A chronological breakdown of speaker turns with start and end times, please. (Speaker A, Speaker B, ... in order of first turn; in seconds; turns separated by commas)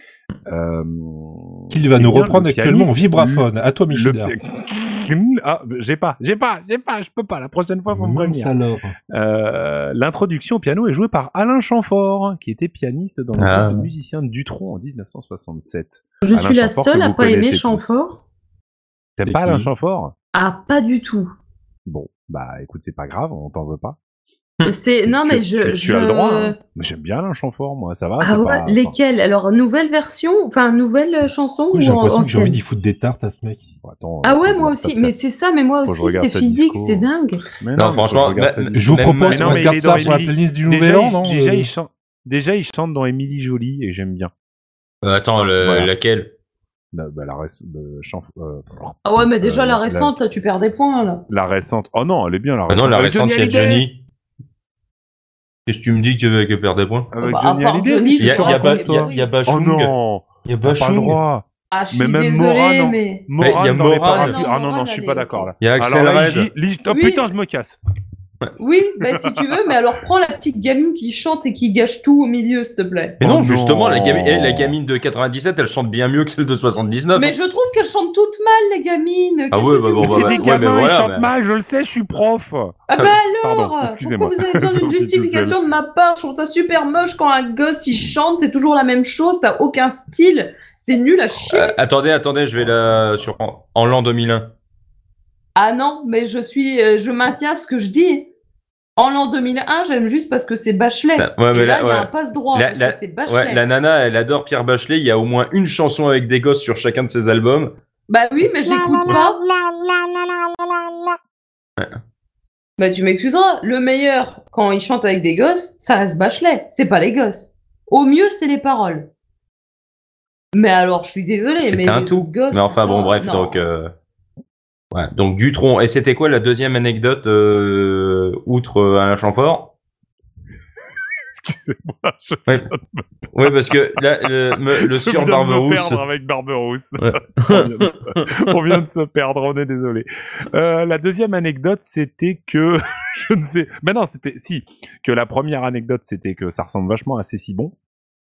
Speaker A: 0.5-8.5, Speaker B: 1.7-4.3, Speaker B: 7.9-8.9, Speaker A: 9.1-18.0, Speaker C: 13.4-13.9, Speaker D: 16.2-18.2, Speaker A: 19.2-20.1, Speaker B: 19.3-19.7, Speaker D: 20.3-21.3, Speaker A: 21.9-24.0, Speaker D: 24.6-26.6, Speaker A: 25.1-28.9, Speaker D: 28.2-32.6, Speaker B: 31.7-33.6, Speaker A: 33.8-35.1, Speaker D: 34.2-37.4, Speaker A: 35.8-37.1, Speaker A: 37.6-44.3, Speaker C: 37.8-40.2, Speaker B: 38.7-41.7, Speaker C: 45.0-46.3, Speaker A: 45.6-45.9, Speaker A: 46.9-50.1, Speaker D: 49.0-51.2, Speaker A: 51.3-53.9, Speaker C: 52.7-54.0, Speaker C: 55.7-57.1, Speaker A: 57.1-67.8, Speaker D: 57.2-59.3, Speaker C: 58.2-61.2, Speaker D: 61.7-63.3, Speaker C: 63.4-64.4, Speaker D: 64.1-65.5, Speaker C: 65.6-66.5, Speaker D: 66.9-67.3, Speaker D: 68.6-73.2, Speaker C: 73.2-77.4, Speaker A: 73.2-74.8, Speaker D: 77.1-80.8, Speaker C: 79.5-81.3, Speaker A: 80.0-82.8, Speaker D: 82.9-91.8, Speaker A: 83.3-85.6, Speaker A: 91.3-91.6, Speaker C: 91.5-94.5, Speaker A: 92.6-93.3, Speaker D: 95.5-98.3, Speaker D: 99.0-103.6, Speaker C: 101.2-107.8, Speaker D: 108.1-109.4, Speaker A: 108.7-111.2, Speaker D: 112.8-119.1, Speaker D: 120.5-123.7, Speaker C: 121.6-123.9, Speaker C: 124.9-129.7, Speaker A: 131.3-133.0, Speaker C: 133.3-136.0, Speaker A: 134.8-147.7, Speaker C: 137.0-138.7